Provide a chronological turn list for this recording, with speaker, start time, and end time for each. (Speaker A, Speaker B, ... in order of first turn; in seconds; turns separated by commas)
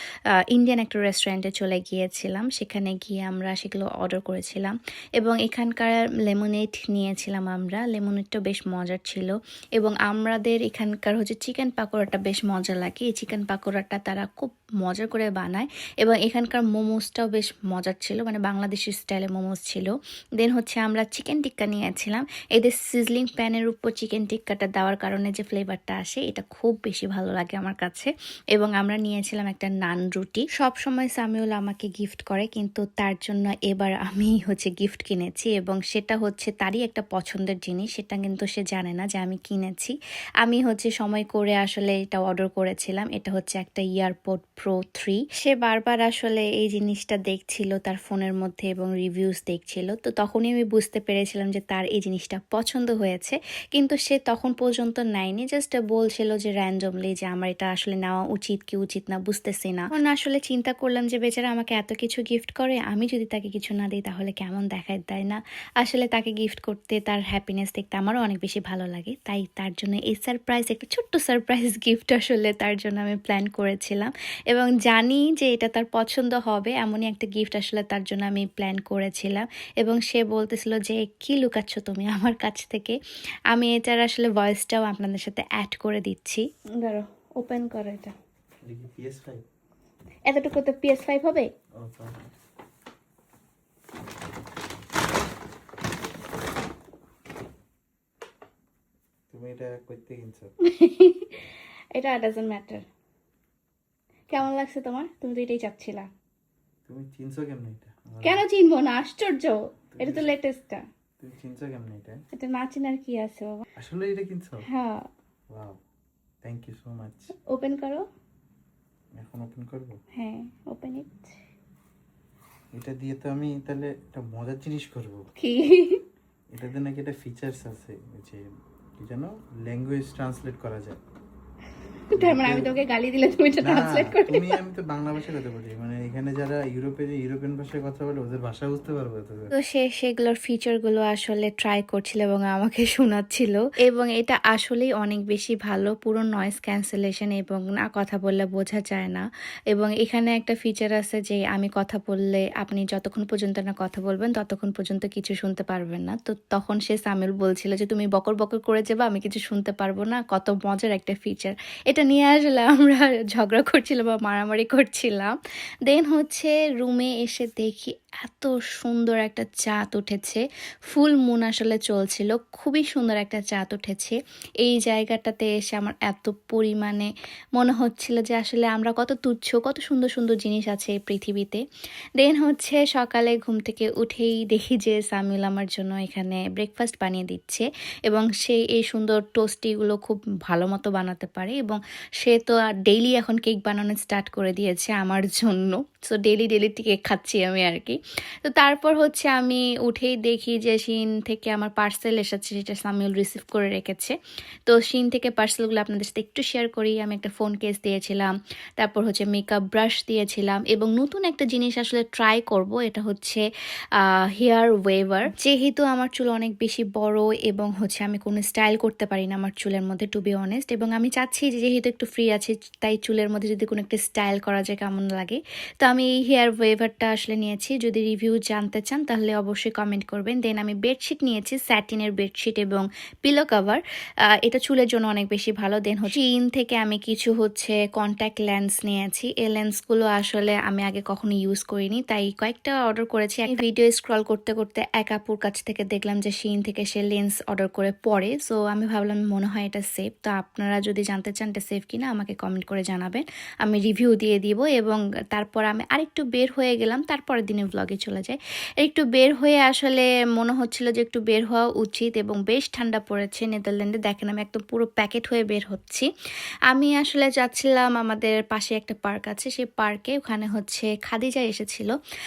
Speaker A: 0.5-83.0, Speaker A: 83.5-88.1, Speaker B: 88.7-89.4, Speaker A: 90.3-91.5, Speaker B: 91.8-92.3, Speaker B: 99.3-100.5, Speaker A: 100.6-101.4, Speaker A: 101.9-102.8, Speaker A: 104.3-106.1, Speaker B: 106.9-108.5, Speaker A: 108.2-110.8, Speaker B: 109.9-110.3, Speaker B: 111.2-112.2, Speaker A: 112.3-113.6, Speaker B: 113.8-114.6, Speaker A: 114.7-115.1, Speaker B: 115.5-115.8, Speaker B: 116.4-117.3, Speaker A: 117.5-118.0, Speaker B: 119.2-120.0, Speaker A: 120.2-121.3, Speaker B: 122.7-125.3, Speaker A: 125.4-126.0, Speaker B: 126.5-128.4, Speaker B: 129.0-131.0, Speaker A: 132.1-134.6, Speaker B: 132.1-132.7, Speaker B: 133.6-139.5, Speaker A: 139.5-165.3, Speaker A: 165.8-181.6, Speaker A: 182.2-204.1, Speaker A: 204.7-213.4, Speaker A: 214.0-233.8, Speaker A: 234.4-266.1, Speaker A: 266.7-271.9